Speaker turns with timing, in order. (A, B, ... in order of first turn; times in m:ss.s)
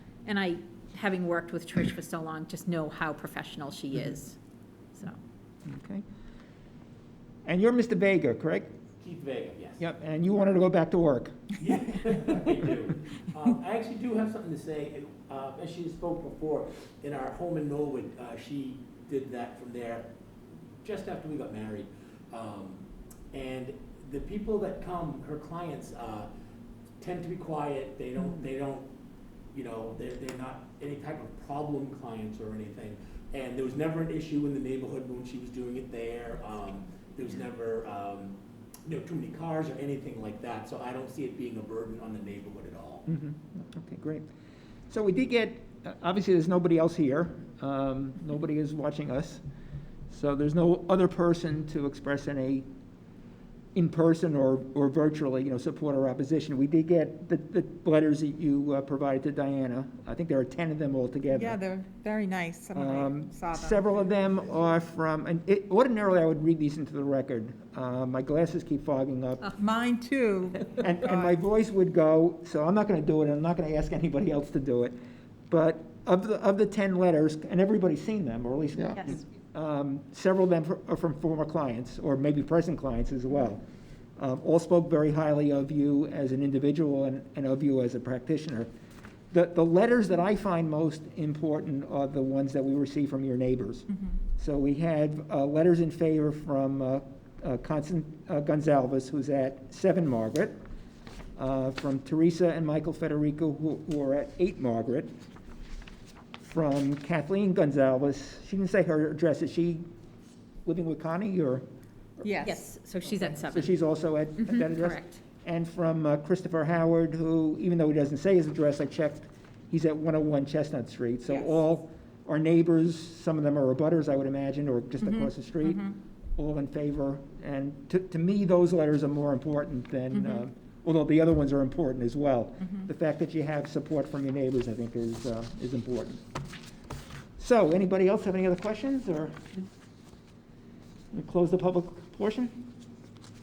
0:00.3-0:04.4 A
0:05.7-0:06.0 B
0:07.5-0:08.7 B
0:09.0-0:09.8 C
0:09.8-0:11.6 B
0:11.6-0:20.1 C
0:20.8-0:26.3 C
0:27.0-0:28.9 C
0:29.5-0:43.0 C
0:43.1-0:44.3 B
0:44.9-0:49.4 B
0:50.1-0:52.7 B
0:53.8-1:01.6 B
1:01.3-1:03.9 D
1:02.8-1:09.5 B
1:09.6-1:11.3 D
1:10.7-1:15.0 B
1:15.5-1:23.6 B
1:24.2-1:28.7 B
1:29.3-1:40.6 B
1:41.4-1:45.1 B
1:46.4-1:49.8 B
1:50.6-1:51.6 B
1:52.2-1:52.6 D
1:52.4-1:53.8 A
1:53.4-2:16.2 B
1:54.4-1:55.2 A
2:17.4-2:19.5 B
2:21.1-2:22.6 B